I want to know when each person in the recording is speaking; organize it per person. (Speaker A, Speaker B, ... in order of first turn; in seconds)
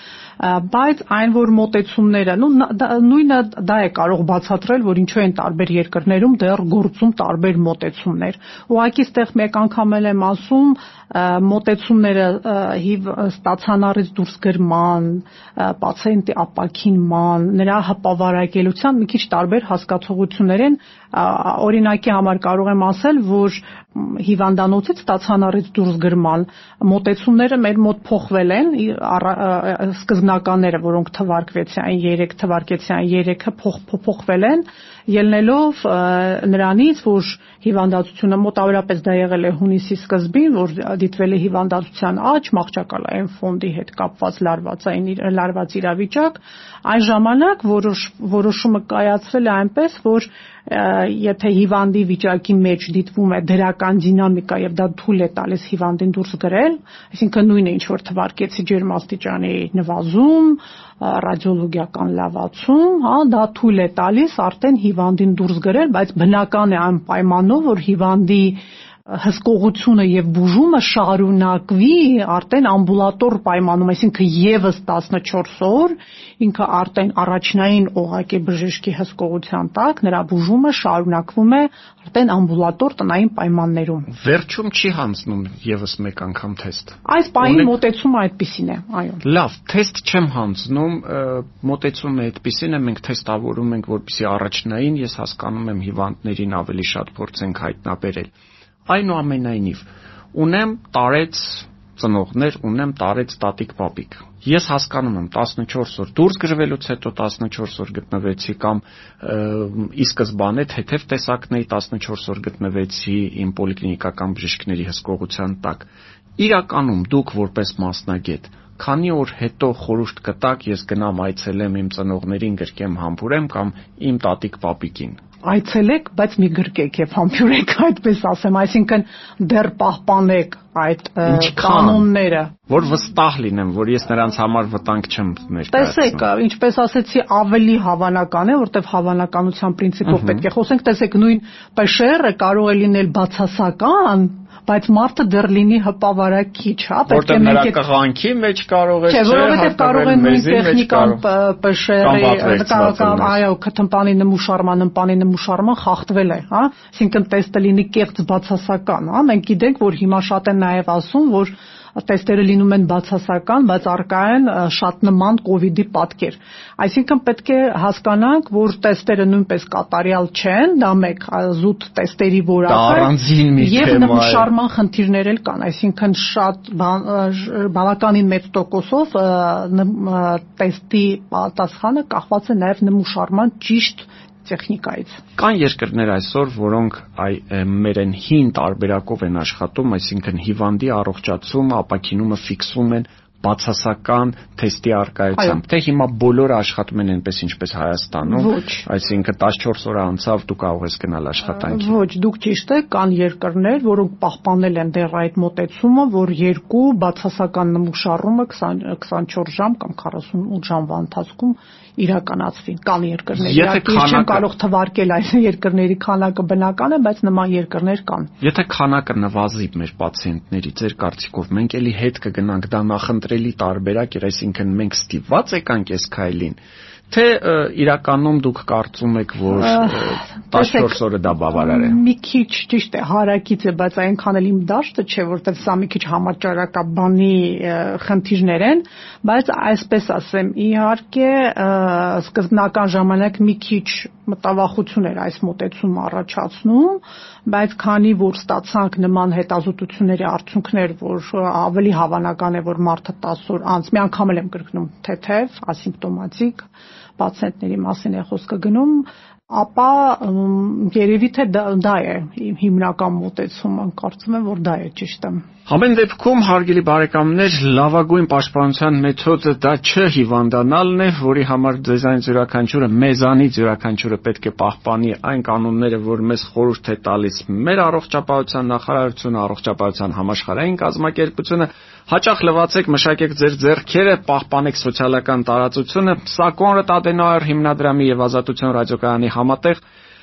Speaker A: 0.4-84.1, 87.0-89.2, 125.4-132.5, 135.7-147.8, 149.1-185.2, 198.2-198.9, 201.6-218.3, 229.5-256.6, 257.2-265.4
Speaker B: 84.1-87.8, 89.2-98.3, 98.9-125.2, 131.2-132.1, 132.7-136.2, 140.1-140.4, 147.1-151.2, 152.0-153.4, 172.7-174.5, 185.4-201.9, 213.4-214.5, 218.4-226.6, 227.1-232.0, 265.7-289.8